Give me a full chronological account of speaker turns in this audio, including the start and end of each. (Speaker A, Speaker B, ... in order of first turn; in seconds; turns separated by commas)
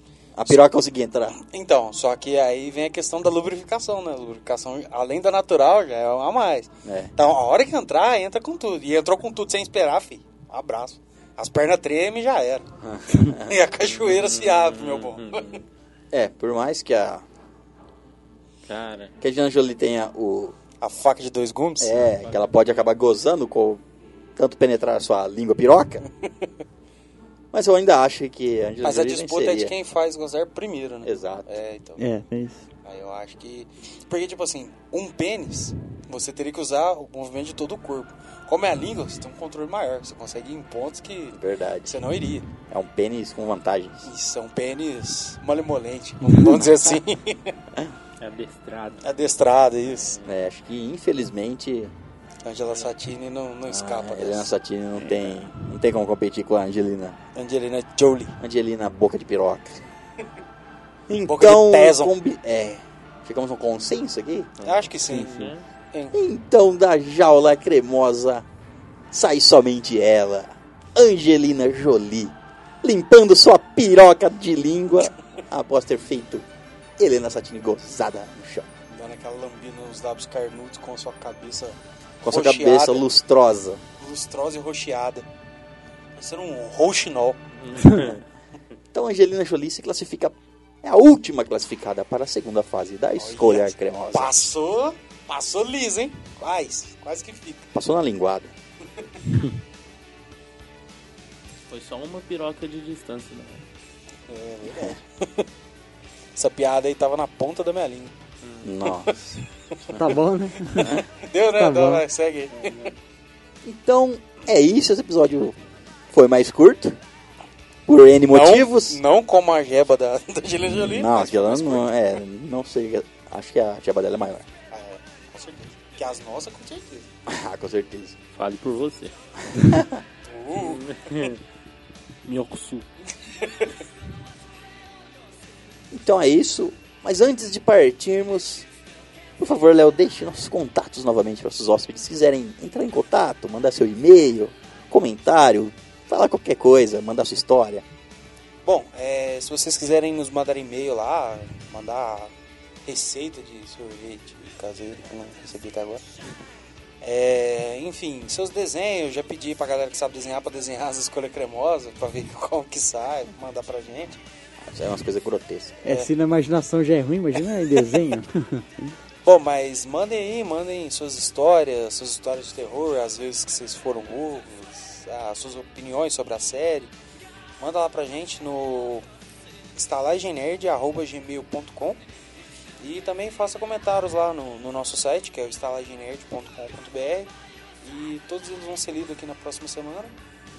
Speaker A: 0.3-1.4, Speaker B: 1.3-12.7, Speaker A: 6.8-7.1, Speaker A: 12.8-13.5, Speaker B: 13.2-15.5, Speaker C: 13.8-15.6, Speaker A: 16.1-17.2, Speaker C: 18.6-19.1, Speaker A: 19.2-20.5, Speaker B: 20.8-22.0, Speaker A: 21.8-23.8, Speaker A: 24.4-26.1, Speaker A: 27.5-29.7, Speaker B: 28.8-32.0, Speaker A: 31.0-31.5, Speaker D: 32.0-32.6, Speaker B: 32.8-42.5, Speaker A: 41.3-42.0, Speaker A: 42.7-44.0, Speaker B: 44.0-47.5, Speaker C: 48.2-49.0, Speaker B: 49.0-50.1, Speaker A: 50.2-51.9, Speaker B: 52.4-54.5, Speaker A: 53.7-57.2, Speaker C: 55.1-55.5, Speaker B: 57.3-58.4, Speaker A: 58.4-59.8, Speaker A: 61.1-64.5, Speaker B: 61.2-62.1, Speaker B: 64.6-66.2, Speaker C: 64.6-65.6, Speaker A: 66.1-68.4, Speaker A: 69.1-76.4, Speaker A: 77.0-78.7, Speaker B: 78.9-83.0, Speaker A: 82.2-83.8, Speaker B: 84.0-85.2, Speaker B: 86.2-87.5, Speaker C: 87.6-88.2, Speaker A: 88.9-94.5, Speaker B: 93.2-97.7, Speaker A: 97.7-98.5, Speaker C: 101.7-103.6, Speaker B: 104.3-105.5, Speaker B: 106.3-108.1, Speaker A: 108.6-109.2, Speaker D: 109.9-111.0, Speaker B: 110.8-112.9, Speaker D: 111.5-112.0, Speaker C: 112.6-112.9, Speaker A: 113.6-115.5, Speaker A: 116.1-117.0, Speaker A: 117.9-119.0, Speaker B: 118.3-121.9, Speaker A: 120.8-124.5, Speaker B: 124.7-127.0, Speaker A: 127.2-128.2, Speaker C: 128.3-129.1, Speaker A: 129.6-130.0, Speaker B: 130.2-130.9, Speaker C: 130.6-131.4, Speaker C: 132.2-132.8, Speaker B: 133.4-133.7, Speaker A: 135.9-138.7, Speaker A: 139.4-147.8, Speaker B: 148.6-152.3, Speaker B: 152.8-156.0, Speaker B: 157.0-164.2, Speaker A: 164.7-165.8, Speaker D: 165.8-168.9, Speaker B: 165.8-166.1, Speaker B: 169.2-176.9, Speaker B: 177.6-179.0, Speaker B: 179.7-182.0, Speaker B: 182.8-187.3, Speaker B: 187.8-190.1